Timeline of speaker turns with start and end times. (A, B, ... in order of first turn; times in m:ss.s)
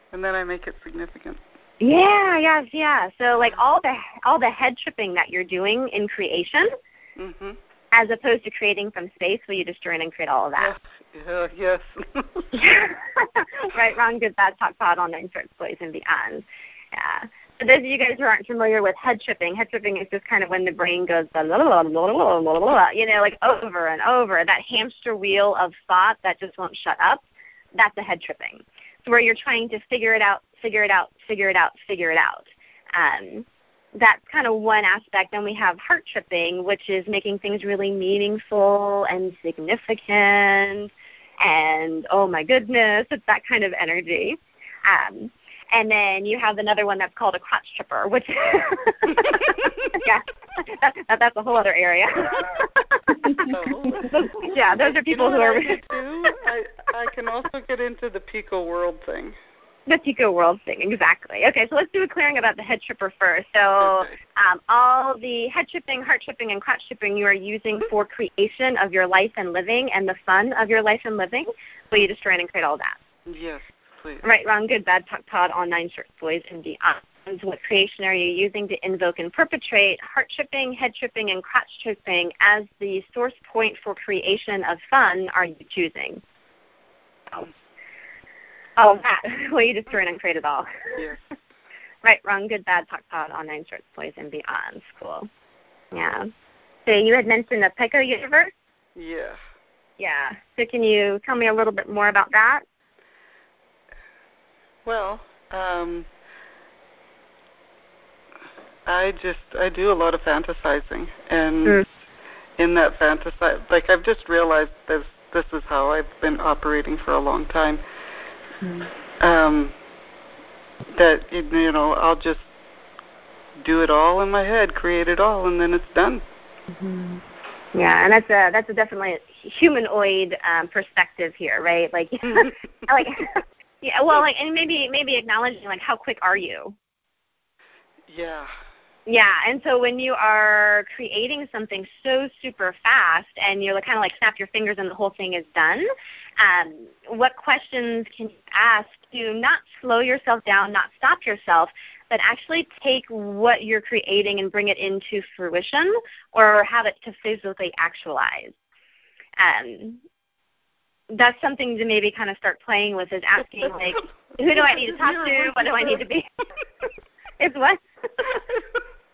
0:00.1-0:01.4 A
0:01.8-0:06.7 B
0:07.2-0:07.6 A
0:07.9-0:10.7 B
0:10.6-0:12.8 A
0:12.6-0:27.2 B
0:27.7-0:40.9 B
0:41.4-0:55.8 B
0:53.5-0:59.3 A
0:59.9-1:13.0 B
1:03.8-1:04.1 A
1:13.3-1:14.2 A
1:14.2-1:26.2 B
1:28.8-1:31.0 B
1:32.0-1:35.3 B
1:35.9-1:36.3 B
1:36.8-1:38.5 B
1:39.0-1:39.4 A
1:40.0-1:42.6 B
1:44.8-1:46.1 A
1:48.8-1:51.8 A
1:52.6-1:57.8 A
1:59.2-1:59.7 A
2:00.9-2:02.5 A
2:03.6-2:06.2 A
2:06.8-2:07.2 B
2:07.7-2:16.7 B
2:18.1-2:18.5 A
2:19.0-2:25.9 B
2:26.4-2:38.6 B
2:39.4-2:40.0 B
2:41.1-2:46.2 B
2:44.6-2:46.0 A
2:47.4-2:48.3 B